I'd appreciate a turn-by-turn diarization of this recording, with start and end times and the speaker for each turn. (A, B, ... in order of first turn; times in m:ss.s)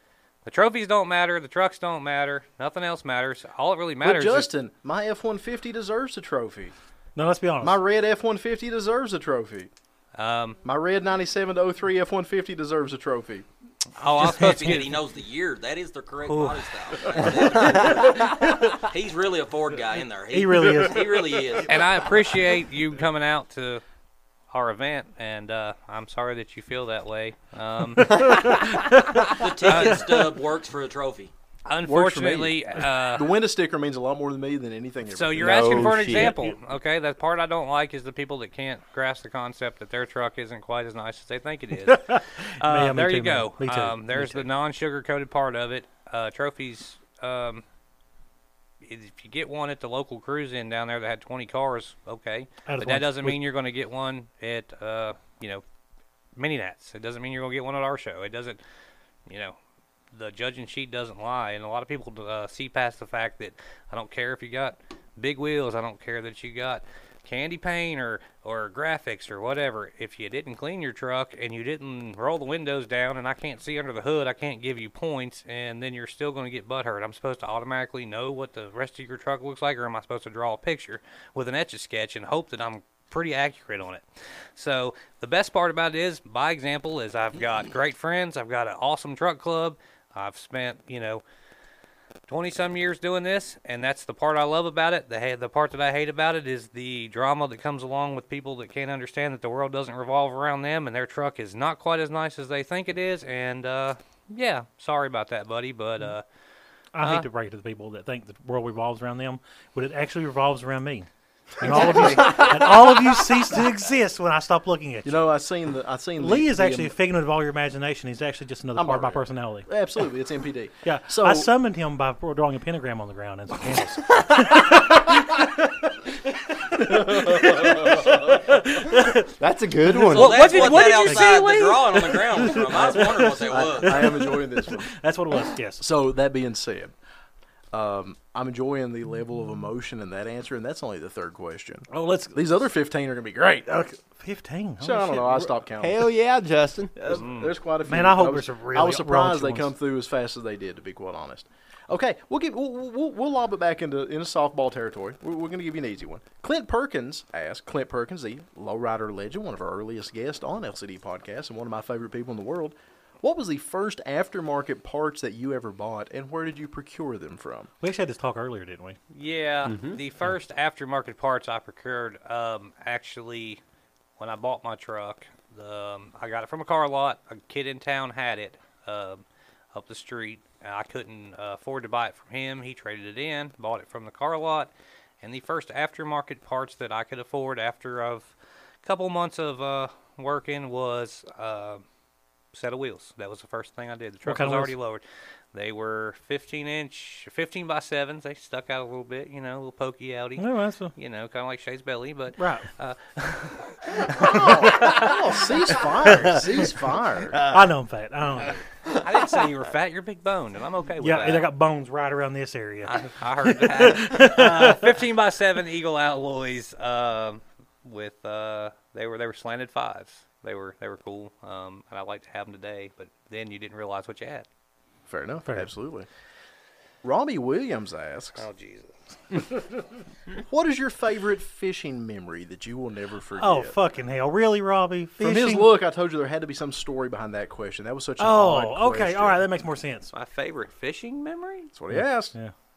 0:00.4-0:04.5 A
0:04.0-0:06.7 B
0:07.2-0:07.8 C
0:07.6-0:09.7 B
0:10.2-0:10.6 A
0:10.6-0:13.4 B
0:14.0-0:15.0 A
0:14.1-0:22.0 D
0:14.4-0:14.8 C
0:16.2-0:18.1 A
0:17.8-0:18.8 C
0:20.3-0:21.4 C
0:21.7-0:23.8 A
0:24.5-0:28.5 A
0:28.0-0:30.0 C
0:29.3-0:31.3 D
0:29.4-0:30.2 A
0:31.6-0:33.3 A
0:31.8-0:35.8 B
0:35.1-0:47.6 A
0:35.4-0:36.4 E
0:41.8-0:44.4 C
0:48.8-0:55.6 A
0:52.7-0:53.4 C
0:56.4-0:58.6 A
0:59.3-0:59.6 A
1:00.1-1:24.0 A
1:24.6-1:31.2 A
1:32.3-1:46.2 A
1:46.9-1:51.1 C
1:47.0-1:47.3 A
1:51.6-1:55.2 C
1:51.6-1:53.1 E
1:55.0-1:56.9 B
1:56.2-1:59.7 C
1:58.8-2:01.5 B
2:00.8-2:05.9 C
2:06.5-2:09.3 C
2:09.4-2:10.8 E
2:09.9-2:11.3 C
2:10.1-2:12.7 A
2:10.1-2:14.1 D
2:12.4-2:15.8 C
2:12.7-2:14.9 B
2:15.8-2:16.9 B
2:17.7-2:23.7 B
2:21.9-2:22.5 C
2:23.7-2:25.5 C
2:24.8-2:26.1 B
2:25.8-2:26.9 E
2:27.0-2:47.7 B
2:27.1-2:27.5 A
2:27.8-2:29.7 C
2:47.8-2:49.0 C
2:49.1-2:53.6 A
2:49.6-2:50.0 E
2:54.2-2:59.2 A
2:59.7-3:08.3 A
3:08.8-3:11.8 A
3:12.5-3:15.0 A
3:14.2-3:14.8 C
3:15.5-3:24.9 A
3:20.4-3:20.9 C
3:22.4-3:22.7 C
3:24.1-3:27.4 B
3:24.2-3:25.1 C
3:25.8-3:26.7 C
3:27.4-3:28.6 C
3:28.9-3:31.5 A
3:31.0-3:34.8 C
3:32.8-3:44.4 A
3:45.1-3:46.1 B
3:47.0-3:48.4 B
3:48.4-3:48.9 A
3:50.5-3:53.8 B
3:53.4-3:55.7 C
3:55.2-3:59.4 B
3:58.2-4:00.1 C
4:00.1-4:01.7 A
4:01.7-4:02.3 B
4:01.9-4:02.5 C